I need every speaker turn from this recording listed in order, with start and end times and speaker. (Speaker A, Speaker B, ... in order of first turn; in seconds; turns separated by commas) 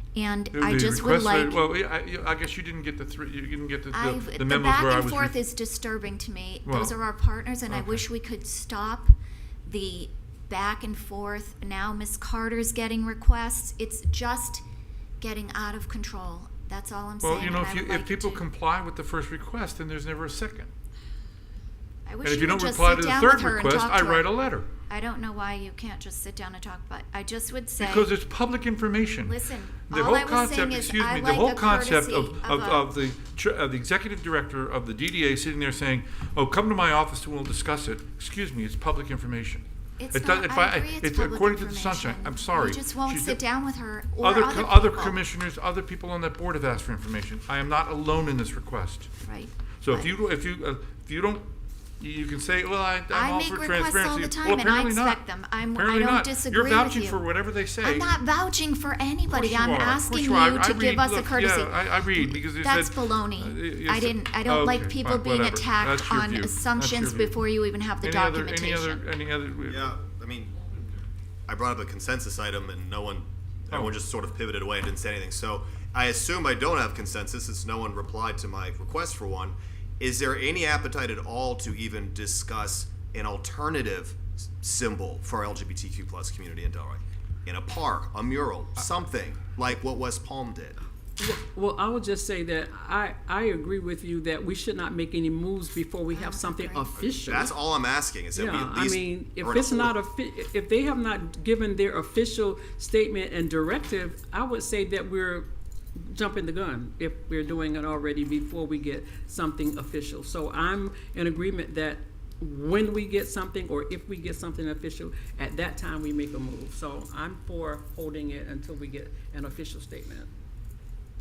Speaker A: 0.1-1.6, Speaker B: 0.5-5.4, Speaker A: 3.9-9.1, Speaker B: 6.7-7.0, Speaker B: 7.7-8.0, Speaker A: 9.6-14.6, Speaker A: 15.2-18.4, Speaker B: 17.2-20.7, Speaker A: 22.0-24.3, Speaker B: 22.2-24.7, Speaker A: 24.9-28.1, Speaker B: 27.8-43.4, Speaker A: 29.2-32.9, Speaker A: 40.0-45.2, Speaker B: 44.2-49.1, Speaker A: 49.2-50.1, Speaker B: 49.8-58.2, Speaker A: 53.1-57.2, Speaker A: 57.8-69.0, Speaker B: 59.3-67.4, Speaker B: 68.0-69.9, Speaker C: 69.7-70.7, Speaker C: 71.5-90.8, Speaker B: 73.7-74.0, Speaker D: 91.2-97.6, Speaker A: 96.1-96.9, Speaker C: 96.9-99.9, Speaker D: 98.3-120.3